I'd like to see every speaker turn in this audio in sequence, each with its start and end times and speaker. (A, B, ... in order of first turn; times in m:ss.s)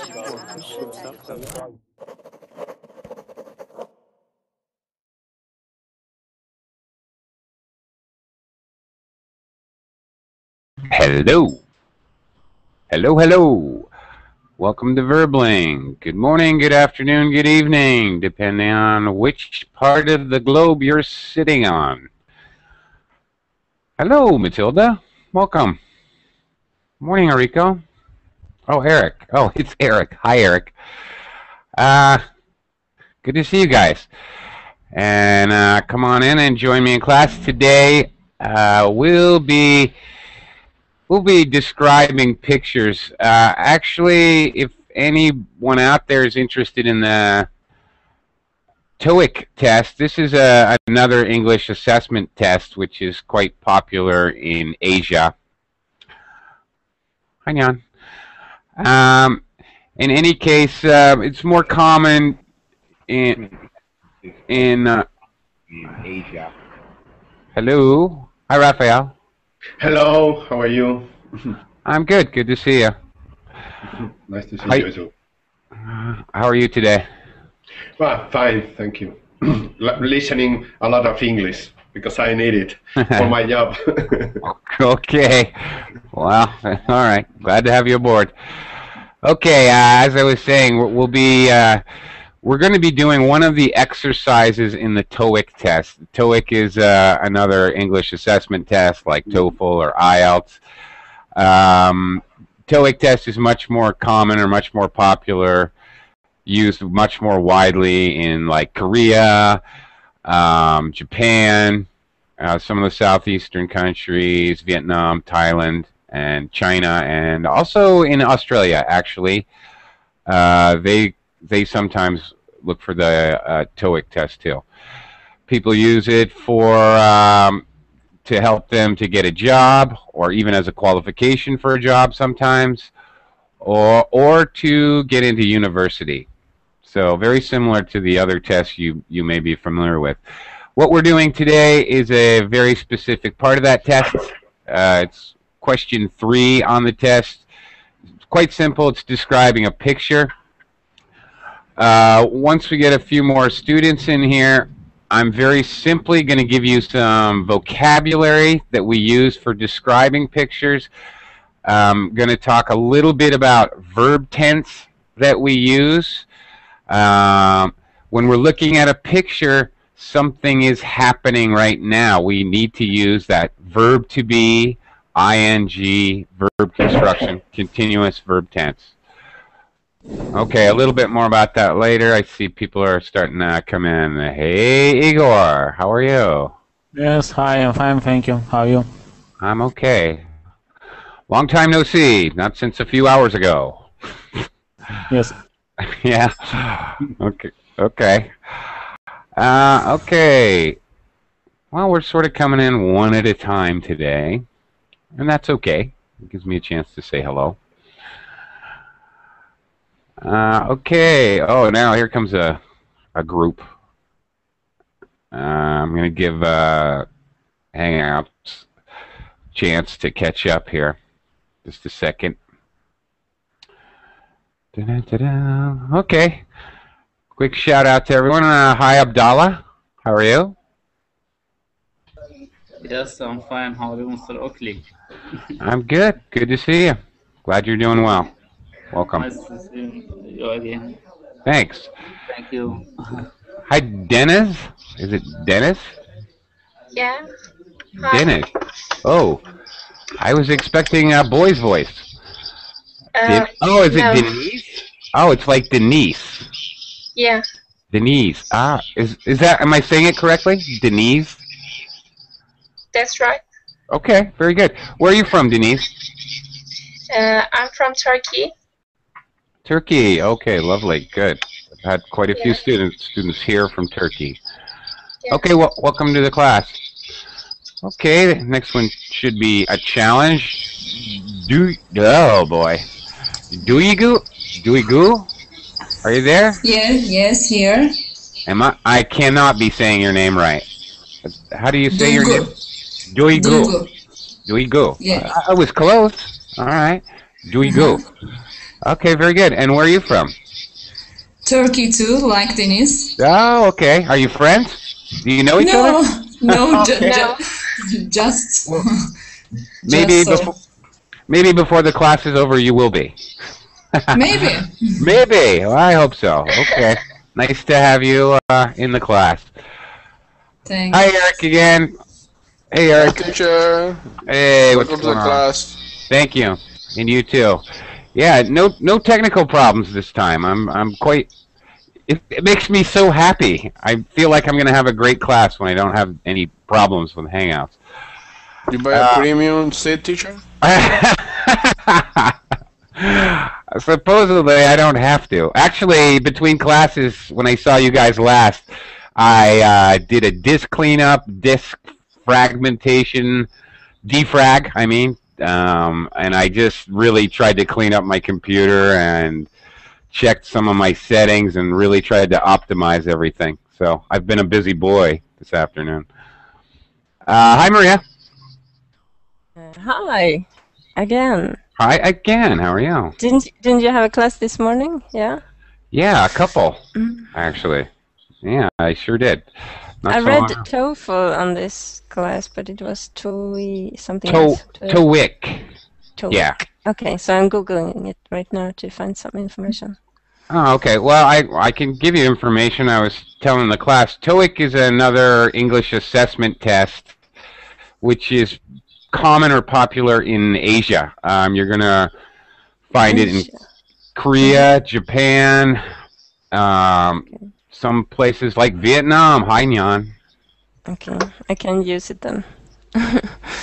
0:10.9-0:11.6 A
0:12.9-0:13.9 A
0:14.6-0:22.1 A
0:24.0-0:25.8 A
0:27.0-0:27.8 A
0:28.7-0:30.7 A
0:31.8-0:32.2 A
0:33.2-0:34.1 A
0:34.9-0:39.9 A
0:41.1-0:47.5 A
0:49.0-0:55.3 A
0:57.5-0:57.8 A
0:58.8-0:59.4 A
1:00.0-1:02.4 A
1:03.1-1:03.5 A
1:04.5-1:05.1 A
1:05.8-1:06.5 A
1:07.6-1:09.1 A
1:09.8-1:11.6 B
1:11.9-1:13.0 A
1:13.9-1:15.1 B
1:15.8-1:17.1 A
1:18.0-1:24.4 B
1:24.4-1:25.5 A
1:26.1-1:28.3 A
1:29.2-1:31.8 A
1:32.4-1:40.6 A
1:41.4-1:45.7 A
1:46.5-1:49.6 A
1:50.2-1:51.9 A
1:52.4-1:59.5 A
2:00.3-2:04.6 A
2:05.5-2:07.6 A
2:08.2-2:12.9 A
2:13.6-2:16.3 A
2:16.8-2:20.2 A
2:20.8-2:27.4 A
2:28.3-2:30.3 A
2:31.8-2:40.9 A
2:41.7-2:46.3 A
2:46.9-2:58.9 A
3:00.3-3:06.5 A
3:07.0-3:08.9 C
3:09.4-3:10.2 A
3:11.3-3:13.9 A
3:15.1-3:15.4 C
3:15.9-3:18.3 A
3:19.4-3:20.8 A
3:21.7-3:24.4 A
3:25.2-3:27.6 A
3:30.2-3:32.6 A
3:33.2-3:33.7 A
3:35.3-3:37.1 A
3:37.7-3:38.6 A
3:39.5-3:41.0 A
3:41.6-3:42.4 A
3:44.8-3:46.4 A
3:47.4-3:50.6 A
3:52.8-3:54.8 D
3:55.6-3:58.3 A
3:58.9-3:59.3 A
3:59.2-4:01.0 D
4:01.5-4:01.9 A
4:02.3-4:03.2 D
4:03.7-4:05.9 A
4:06.9-4:07.2 E
4:08.0-4:08.4 E
4:08.1-4:08.5 A
4:09.0-4:09.4 A
4:10.2-4:12.1 A
4:13.2-4:14.3 E
4:13.2-4:16.5 A
4:17.2-4:17.4 E
4:17.9-4:21.4 A
4:22.9-4:23.4 E
4:23.9-4:25.9 A
4:27.1-4:28.5 E
4:29.7-4:34.4 A
4:32.4-4:32.6 E
4:35.3-4:36.8 A
4:37.8-4:42.8 A
4:43.5-4:45.3 A
4:46.0-4:46.6 A
4:46.6-4:48.0 F
4:48.5-4:50.6 A
4:51.3-4:52.5 A
4:51.9-4:52.5 F
4:53.1-4:53.8 A
4:53.3-4:53.9 F
4:54.5-4:58.0 A
4:55.0-4:55.3 F
4:57.6-4:58.0 F
4:58.8-5:00.3 A
5:01.4-5:03.1 F
5:03.2-5:07.2 A
5:05.6-5:09.1 F
5:07.0-5:07.4 E
5:09.8-5:10.5 F
5:09.9-5:10.5 A
5:11.3-5:13.1 A
5:14.1-5:15.1 F
5:15.0-5:19.5 A
5:20.7-5:21.1 F
5:20.9-5:21.9 A
5:22.7-5:23.3 A
5:22.9-5:24.0 G
5:24.3-5:25.4 A
5:24.7-5:25.8 G
5:26.1-5:27.6 A
5:28.2-5:31.3 A
5:32.1-5:37.8 A
5:38.7-5:40.4 G
5:38.9-5:39.3 A
5:40.6-5:42.4 A
5:43.0-5:48.7 A
5:49.2-5:53.5 A
5:54.0-5:59.5 A
6:00.1-6:06.1 A
6:07.3-6:08.0 A
6:09.6-6:10.4 H
6:11.0-6:11.6 H
6:11.8-6:13.2 A
6:13.2-6:15.4 H
6:15.9-6:16.8 A
6:17.0-6:17.3 H
6:17.3-6:17.9 A
6:18.4-6:19.5 A
6:20.0-6:20.6 A
6:20.1-6:25.0 H
6:24.3-6:25.7 A
6:26.2-6:30.0 H
6:26.3-6:26.6 A
6:30.5-6:37.1 A
6:38.0-6:38.6 A
6:39.1-6:42.1 A
6:42.9-6:43.5 A
6:43.1-6:43.6 H
6:44.2-6:45.8 A
6:46.5-6:50.1 A
6:50.9-6:53.4 H